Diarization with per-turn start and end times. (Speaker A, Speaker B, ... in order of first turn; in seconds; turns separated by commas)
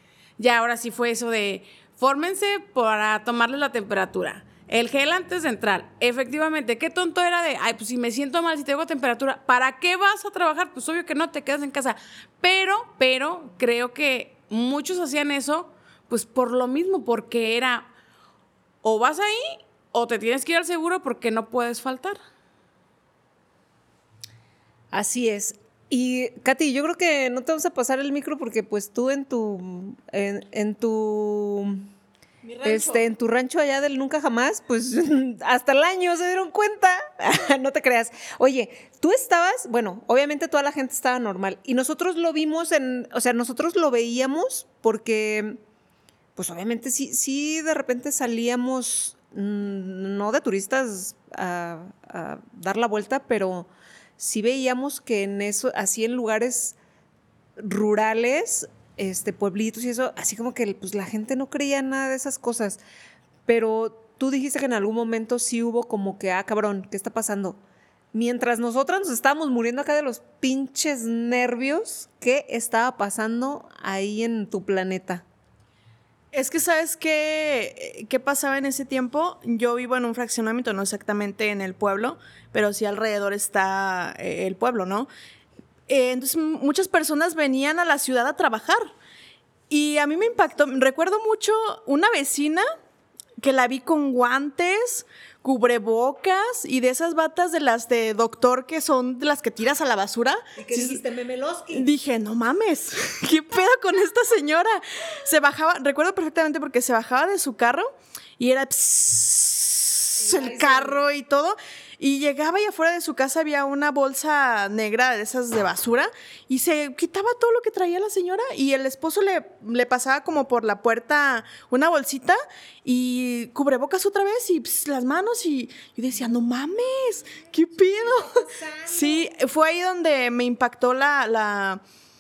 Speaker A: 0.4-17.9, Speaker A: 18.8-22.2, Speaker B: 24.9-31.9, Speaker B: 32.6-45.6, Speaker A: 32.7-33.0, Speaker B: 46.4-56.7, Speaker B: 57.6-62.8, Speaker B: 63.5-67.6, Speaker B: 68.1-75.2, Speaker C: 76.3-85.1, Speaker C: 85.9-88.9, Speaker C: 89.7-92.6, Speaker C: 93.4-101.0, Speaker B: 100.5-101.8, Speaker C: 101.7-131.8, Speaker B: 110.2-111.0, Speaker B: 128.0-129.3